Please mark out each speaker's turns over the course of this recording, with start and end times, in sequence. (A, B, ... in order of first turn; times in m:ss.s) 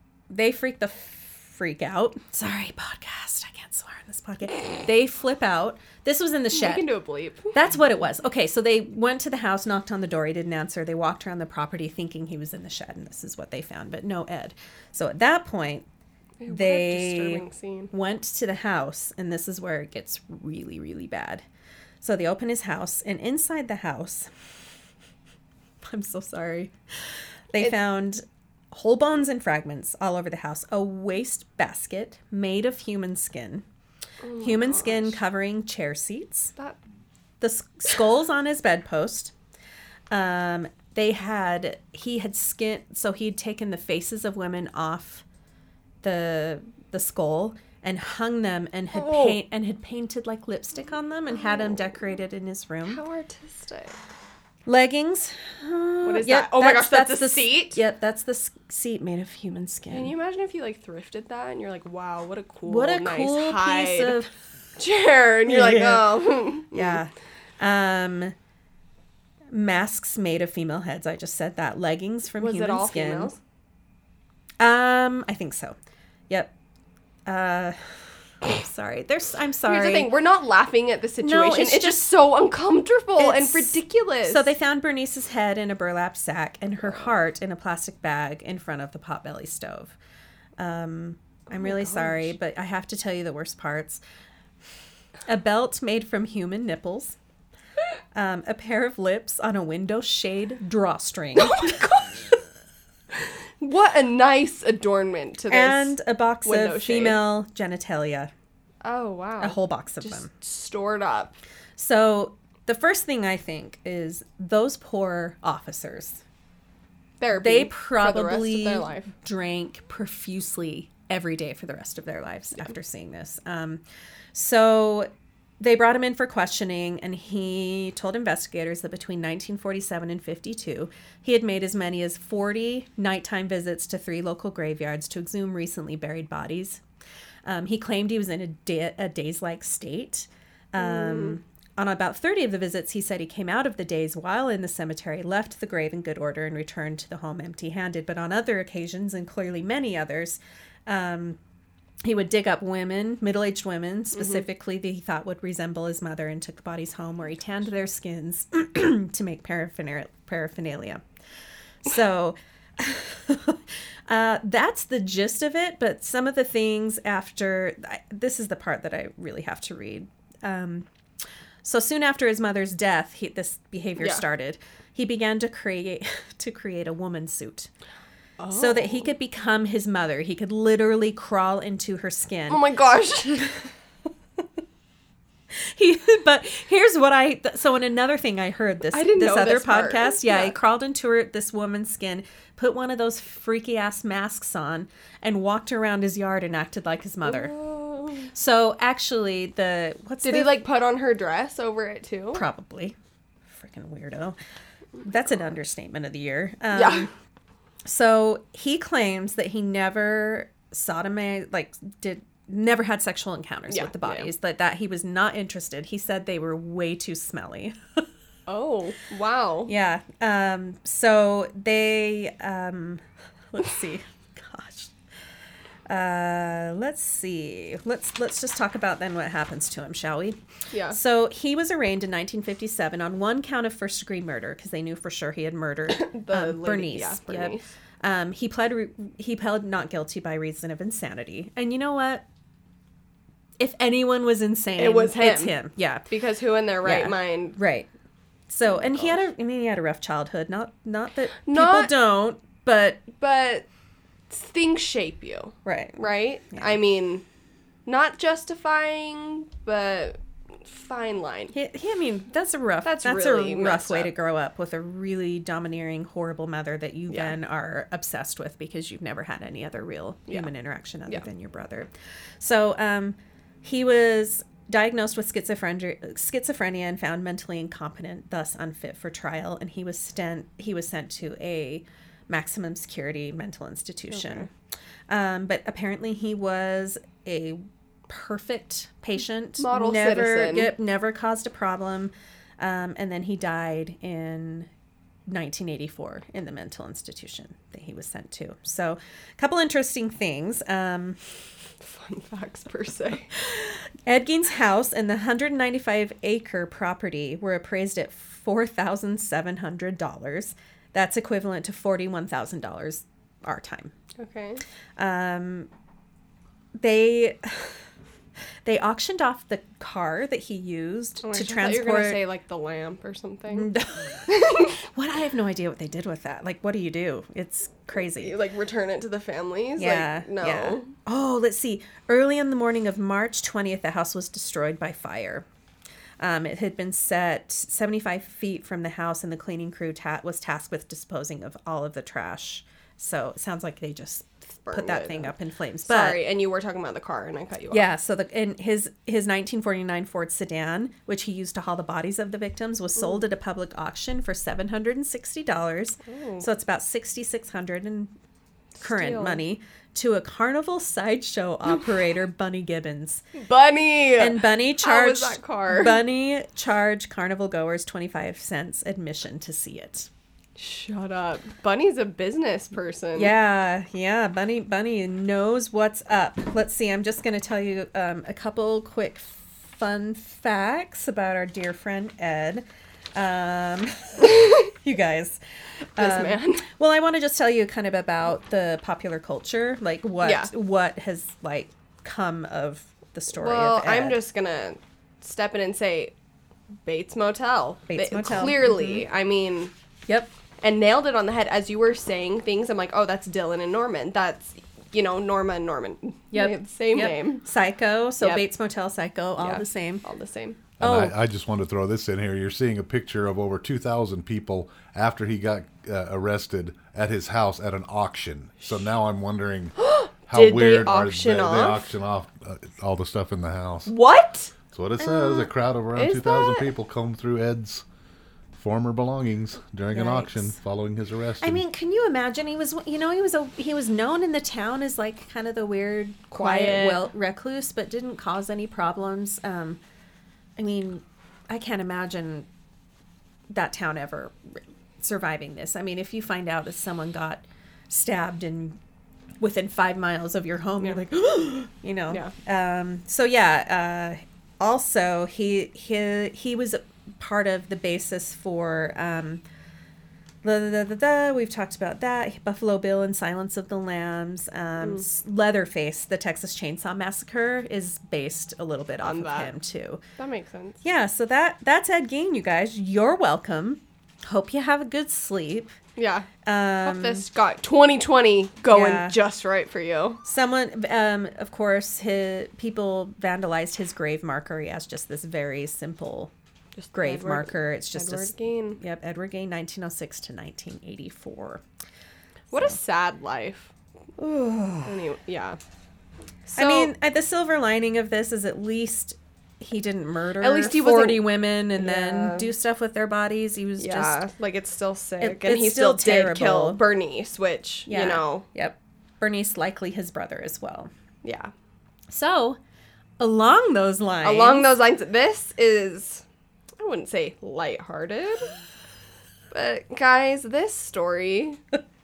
0:00.3-0:06.9 A
0:06.5-0:07.6 B
0:07.5-0:15.9 A
0:16.4-0:17.9 B
0:16.5-0:21.4 A
0:22.0-0:24.3 A
0:25.8-0:26.7 A
0:27.5-0:33.6 A
0:34.2-0:35.2 B
0:34.4-0:36.5 A
0:37.4-0:39.3 A
0:40.1-0:45.2 A
0:46.0-0:53.0 A
0:48.9-0:49.4 B
0:52.9-0:54.0 B
0:54.7-1:00.1 A
0:56.0-0:57.8 B
0:59.9-1:04.2 B
1:02.7-1:04.3 A
1:04.8-1:07.0 B
1:05.5-1:06.2 A
1:06.7-1:08.3 A
1:09.5-1:13.3 A
1:12.4-1:13.4 B
1:14.6-1:15.8 A
1:17.3-1:20.1 A
1:19.7-1:24.5 B
1:21.2-1:22.1 A
1:23.2-1:30.0 A
1:30.6-1:34.0 A
1:31.5-1:32.3 B
1:35.3-1:37.2 A
1:38.1-1:41.8 A
1:41.4-1:42.3 B
1:43.6-1:47.3 B
1:45.5-1:48.3 A
1:48.8-1:51.4 B
1:49.4-1:50.3 A
1:51.8-1:56.2 A
1:57.2-1:59.1 B
1:57.4-2:16.8 A
2:17.4-2:31.4 A
2:20.8-2:21.4 B
2:32.0-2:41.0 A
2:34.2-2:34.4 B
2:41.8-2:50.9 A
2:51.6-2:57.7 A
2:58.4-2:59.1 B
2:58.5-3:02.6 A
3:02.5-3:03.5 B
3:05.5-3:17.5 A
3:08.9-3:10.6 B
3:17.2-3:18.3 B
3:18.3-3:20.5 A
3:20.2-3:22.5 B
3:22.3-3:23.0 A
3:23.5-3:24.4 A
3:25.0-3:27.1 A
3:26.7-3:27.1 B
3:27.8-3:38.0 A
3:33.7-3:34.3 B
3:38.5-3:39.7 B
3:39.7-3:44.9 A
3:45.9-3:50.4 A
3:50.7-3:51.0 B
3:50.9-4:02.2 A
3:55.9-3:57.7 B
4:03.6-4:06.1 A
4:04.8-4:05.6 B
4:06.1-4:07.6 B
4:06.8-4:07.9 A
4:08.5-4:13.0 A
4:08.7-4:09.2 B
4:11.4-4:11.9 B
4:13.2-4:13.7 B
4:14.3-4:17.2 B
4:15.6-4:16.8 A
4:17.9-4:21.5 B
4:21.5-4:44.5 A
4:22.8-4:24.1 B
4:27.1-4:27.3 B
4:45.1-4:54.7 A
4:49.6-4:50.7 B
4:55.3-5:01.2 A
5:01.8-5:03.3 B
5:03.4-5:13.9 A
5:14.2-5:14.6 B
5:15.0-5:15.7 A
5:16.8-5:17.8 A
5:18.6-5:22.2 A
5:21.2-5:23.7 B
5:23.5-5:28.4 A
5:24.3-5:24.8 B
5:28.2-5:30.9 B
5:29.8-5:35.4 A
5:36.2-5:46.2 A
5:44.7-5:45.3 B
5:45.8-5:47.9 B
5:47.7-5:58.1 A
5:56.0-5:56.5 B
5:58.8-5:59.4 B
5:58.8-6:03.2 A
6:03.4-6:06.0 B
6:04.2-6:10.1 A
6:10.6-6:13.3 B
6:13.2-6:25.4 A
6:24.2-6:24.6 B
6:26.0-6:34.2 A
6:26.0-6:26.7 B
6:30.2-6:30.5 B
6:33.4-6:36.1 B
6:36.8-6:39.7 B
6:37.9-6:39.0 A
6:40.6-6:47.4 B
6:46.3-6:50.0 A
6:48.2-6:48.4 B
6:49.4-6:50.6 B
6:50.8-6:59.8 C
6:50.8-6:51.2 A
6:59.8-7:01.9 B
7:00.3-7:03.9 C
7:03.9-7:06.7 B
7:04.7-7:07.8 C
7:08.5-7:11.6 C
7:09.9-7:10.5 A
7:11.4-7:19.8 A
7:16.3-7:17.1 B
7:20.6-7:22.5 A
7:23.5-7:28.8 A
7:29.4-7:39.4 A
7:40.4-7:50.0 A
7:49.0-7:49.5 B
7:50.2-7:50.8 B
7:50.8-7:55.8 A
7:56.0-7:56.3 B
7:56.4-7:57.3 A
7:56.8-8:00.2 B
7:58.7-7:59.2 A
8:00.2-8:06.3 A
8:06.8-8:08.8 B
8:06.9-8:11.6 A
8:12.5-8:13.7 B
8:14.2-8:14.9 A
8:14.8-8:15.6 B
8:16.5-8:16.9 B
8:16.5-8:24.2 A
8:20.4-8:22.5 B
8:23.8-8:28.5 B
8:25.2-8:26.8 A
8:27.9-8:30.9 A
8:31.2-8:31.5 B
8:32.1-8:32.6 A
8:33.2-8:34.7 A
8:34.2-8:36.2 B
8:36.8-8:38.5 B
8:39.5-8:41.6 B